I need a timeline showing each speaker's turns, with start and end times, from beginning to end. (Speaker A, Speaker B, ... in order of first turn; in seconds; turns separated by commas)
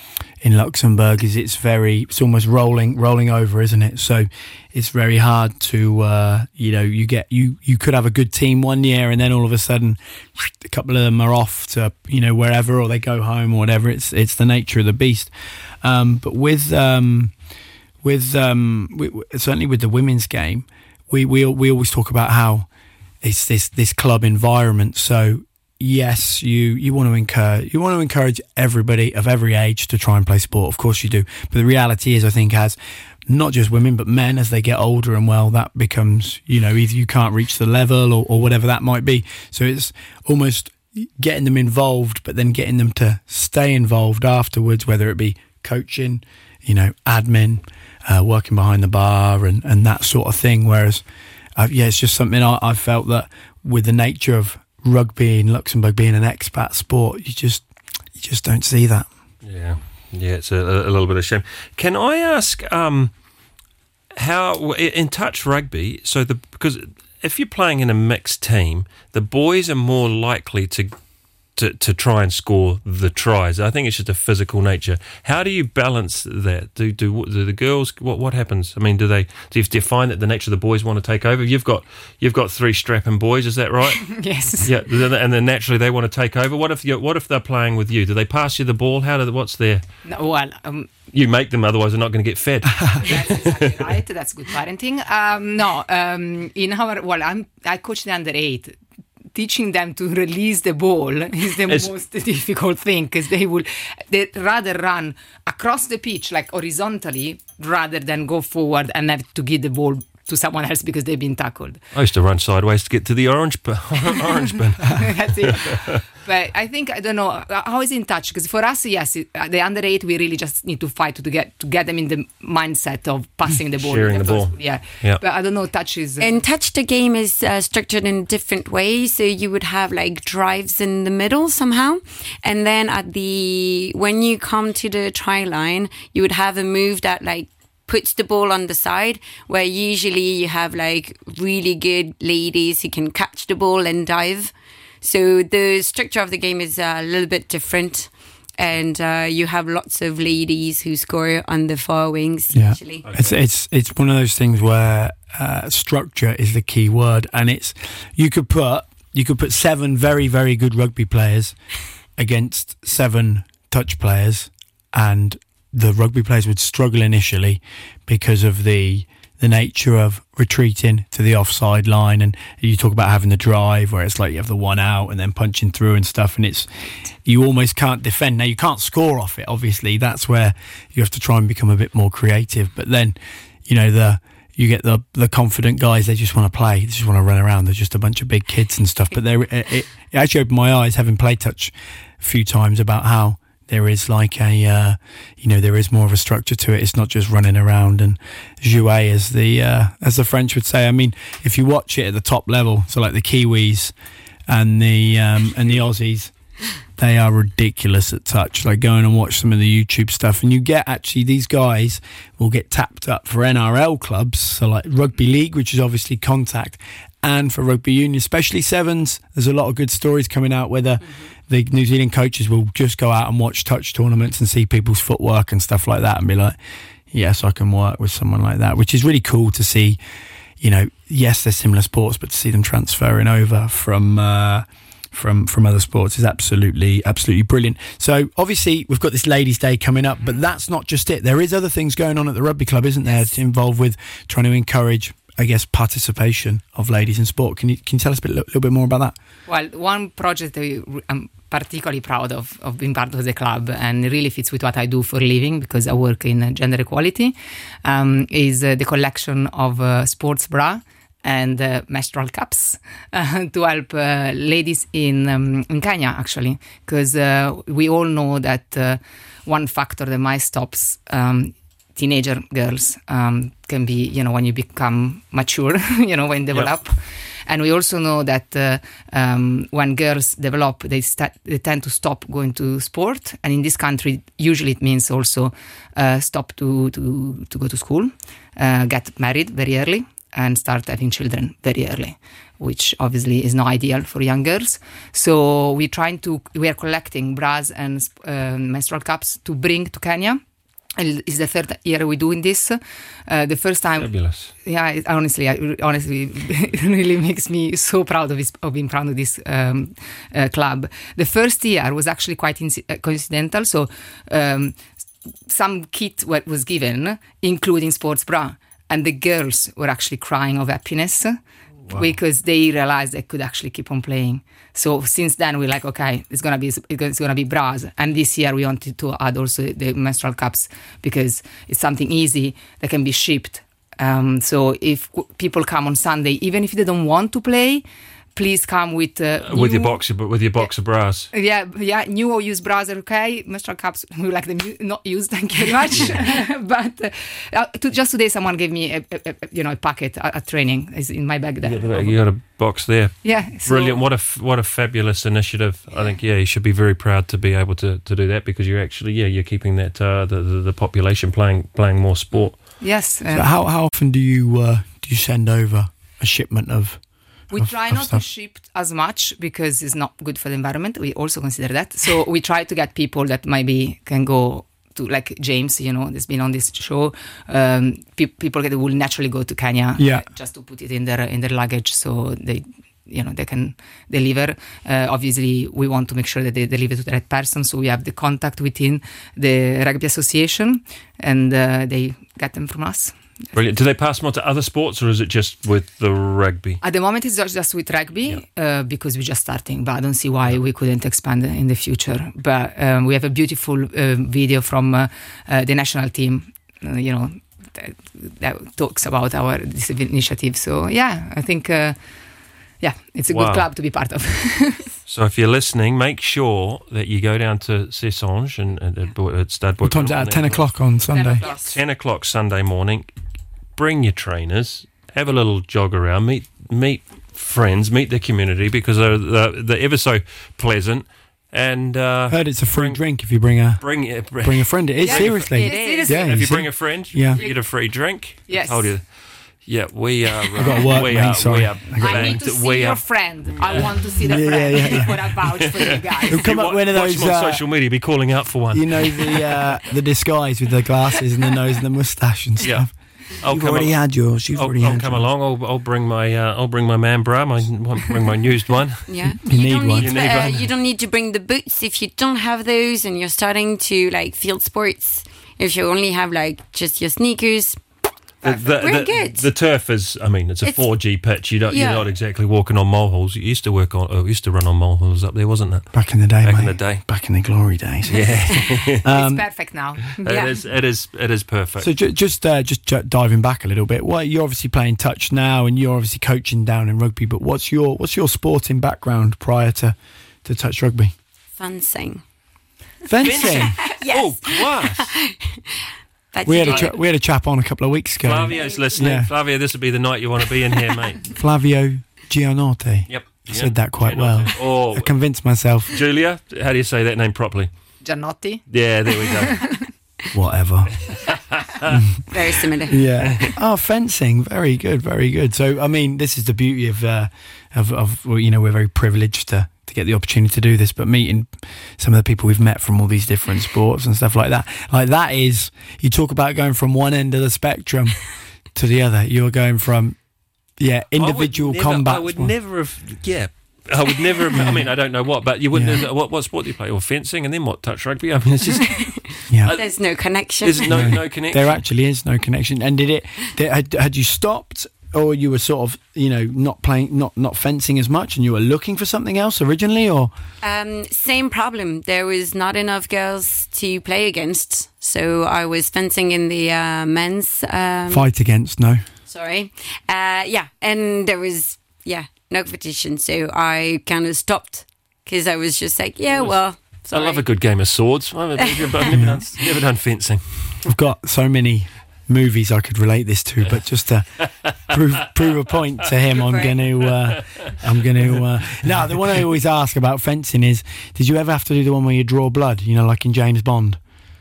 Speaker A: 0.4-15.3, Speaker A: 15.8-17.3, Speaker A: 18.0-22.7, Speaker A: 23.2-51.0, Speaker A: 51.5-59.1, Speaker B: 59.4-63.1, Speaker B: 64.2-70.9, Speaker B: 71.5-84.0, Speaker C: 83.9-84.7, Speaker B: 84.6-89.8, Speaker C: 90.0-90.9, Speaker B: 91.1-93.8, Speaker C: 93.0-98.8, Speaker C: 99.3-111.8, Speaker B: 111.9-116.0, Speaker C: 114.9-126.4, Speaker B: 123.8-125.2, Speaker D: 126.2-153.0, Speaker A: 152.5-161.6, Speaker B: 153.0-153.3, Speaker A: 162.2-176.7, Speaker A: 177.2-203.9, Speaker A: 204.5-206.3, Speaker A: 207.0-226.5, Speaker A: 227.1-230.0, Speaker A: 230.6-249.1, Speaker C: 249.5-300.4, Speaker C: 301.0-314.8, Speaker B: 304.0-304.5, Speaker C: 315.5-321.4, Speaker C: 321.9-340.0, Speaker B: 339.4-341.3, Speaker C: 341.3-352.2, Speaker B: 351.6-362.6, Speaker C: 353.2-354.0, Speaker C: 362.8-363.5, Speaker A: 363.3-367.0, Speaker C: 367.5-393.2, Speaker A: 367.5-368.2, Speaker A: 380.0-380.2, Speaker B: 393.5-396.8, Speaker C: 396.8-412.0, Speaker C: 412.8-414.9, Speaker B: 413.3-413.7, Speaker B: 415.1-420.6, Speaker A: 419.8-421.4, Speaker C: 421.1-421.7, Speaker D: 421.1-421.7, Speaker B: 421.4-423.1, Speaker B: 423.8-433.1, Speaker A: 432.3-437.4, Speaker B: 433.8-444.2, Speaker C: 435.0-436.4, Speaker D: 435.6-436.1, Speaker C: 437.4-437.6, Speaker C: 438.5-438.9, Speaker A: 440.6-442.4, Speaker C: 442.0-446.5, Speaker A: 444.2-445.1, Speaker B: 445.4-449.6, Speaker A: 446.3-447.6, Speaker A: 448.7-455.3, Speaker B: 452.6-459.4, Speaker D: 459.1-467.8, Speaker A: 459.4-460.1, Speaker B: 460.0-460.7, Speaker C: 468.4-468.7, Speaker B: 468.4-475.9, Speaker D: 468.8-469.4, Speaker D: 471.7-472.1, Speaker A: 475.9-479.4, Speaker B: 476.4-477.0, Speaker B: 478.1-479.0, Speaker C: 479.1-480.6, Speaker B: 480.2-481.9, Speaker A: 481.8-491.1, Speaker D: 491.6-492.2, Speaker A: 493.0-493.9, Speaker B: 493.2-495.1, Speaker D: 493.3-497.0, Speaker A: 496.4-499.3, Speaker B: 496.6-496.9, Speaker B: 498.2-501.2, Speaker D: 498.5-498.8, Speaker A: 501.3-505.9, Speaker B: 503.1-505.1, Speaker B: 505.9-507.7, Speaker C: 508.0-508.7, Speaker B: 508.7-509.8, Speaker C: 509.3-509.8, Speaker A: 510.3-511.0, Speaker B: 511.0-511.9, Speaker A: 511.8-530.2, Speaker D: 512.3-513.0, Speaker B: 513.2-513.5, Speaker A: 530.8-532.5, Speaker B: 531.2-539.9, Speaker A: 534.5-534.9, Speaker A: 535.7-536.0, Speaker D: 539.0-541.2, Speaker A: 539.5-539.8, Speaker B: 540.6-541.8, Speaker A: 540.9-550.3, Speaker D: 550.6-558.2, Speaker A: 558.1-559.0, Speaker D: 559.3-567.4, Speaker B: 566.3-570.9, Speaker D: 568.6-569.2, Speaker A: 569.1-569.4, Speaker A: 570.8-584.0, Speaker B: 574.4-574.7, Speaker D: 576.3-576.8, Speaker B: 577.1-577.7